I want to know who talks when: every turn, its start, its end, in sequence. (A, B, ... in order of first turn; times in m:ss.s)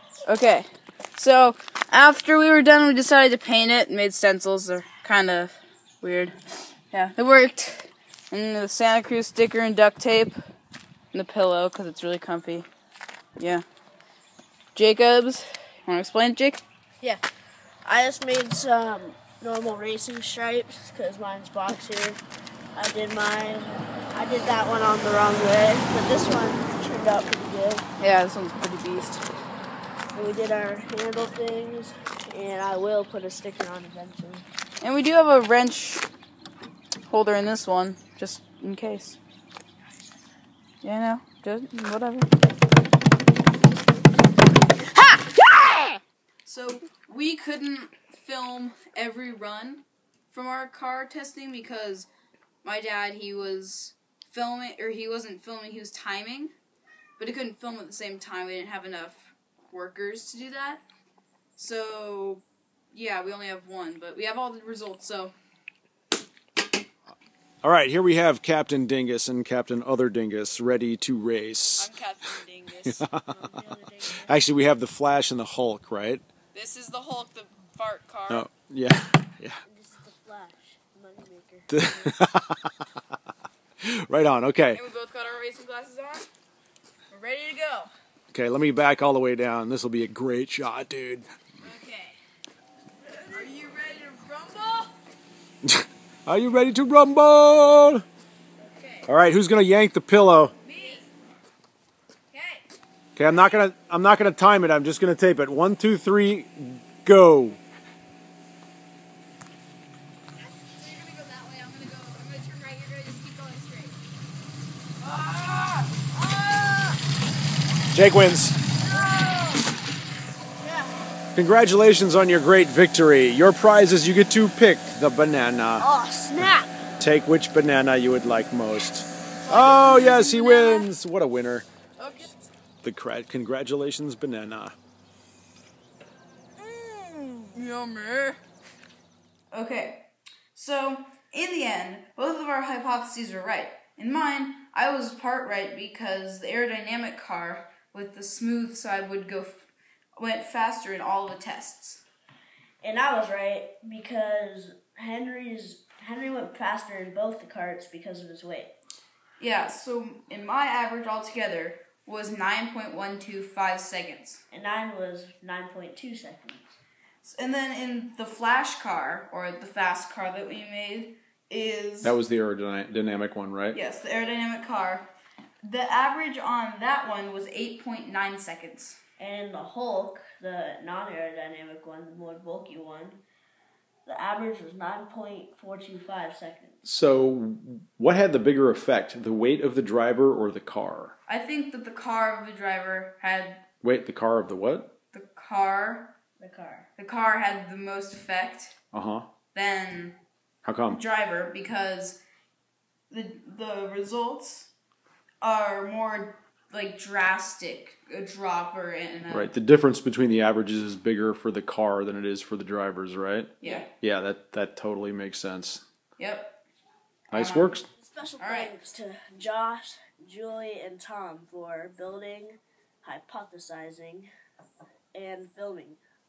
0:00.3-0:06.3 A
0:06.9-0:10.4 A
0:11.1-0:12.7 A
0:13.4-0:13.6 A
0:14.8-0:16.6 A
0:17.8-0:22.2 B
0:22.8-0:27.9 B
0:28.0-0:29.2 A
0:30.1-0:34.5 B
0:34.8-0:36.1 A
0:37.1-0:39.2 A
0:40.8-0:42.3 A
0:46.4-0:52.1 A
0:52.6-0:56.5 A
0:57.2-1:00.8 A
1:01.6-1:02.4 A
1:02.9-1:05.4 A
1:07.6-1:11.9 C
1:11.8-1:13.0 A
1:12.9-1:13.4 C
1:13.3-1:14.4 B
1:14.1-1:16.2 C
1:16.5-1:18.5 A
1:18.3-1:19.6 C
1:19.6-1:22.2 B
1:21.7-1:22.7 C
1:23.8-1:24.8 C
1:24.7-1:26.3 A
1:27.1-1:27.9 A
1:28.3-1:31.2 C
1:31.6-1:32.2 A
1:33.2-1:34.9 A
1:35.6-1:38.0 C
1:38.6-1:39.1 A
1:39.1-1:40.5 C
1:40.6-1:41.1 A
1:42.3-1:42.7 A
1:43.2-1:47.6 C
1:50.4-1:54.0 A
1:55.0-1:56.8 A
1:57.9-1:58.6 C
1:58.9-1:59.4 B
1:58.9-1:59.3 A
2:00.6-2:01.0 B
2:01.4-2:05.9 C
2:05.8-2:06.8 B
2:07.0-2:11.7 C
2:09.4-2:10.9 A
2:12.0-2:12.3 A
2:12.8-2:14.8 C
2:16.6-2:18.4 A
2:19.5-2:20.0 A
2:20.5-2:32.0 A
2:32.8-2:38.7 B
2:39.4-2:44.4 A
2:44.5-2:46.8 B
2:47.2-2:52.2 A
2:52.0-2:53.8 C
2:53.7-2:55.1 A
2:55.6-2:59.0 A
2:59.2-3:03.2 B
3:04.1-3:06.8 B
3:06.8-3:11.1 C
3:11.3-3:13.6 A
3:13.8-3:14.9 C
3:15.1-3:16.1 A
3:16.4-3:16.9 B
3:17.0-3:18.8 A
3:18.9-3:19.2 C
3:19.5-3:20.2 A
3:20.6-3:21.0 C
3:20.9-3:22.2 A
3:23.1-3:24.7 A
3:25.4-3:29.5 A
3:29.3-3:35.8 C
3:33.6-3:33.9 A
3:36.2-3:36.6 A
3:37.3-3:37.8 A
3:37.3-3:37.9 C
3:38.0-3:44.3 B
3:38.4-3:38.7 A
3:45.1-3:46.0 B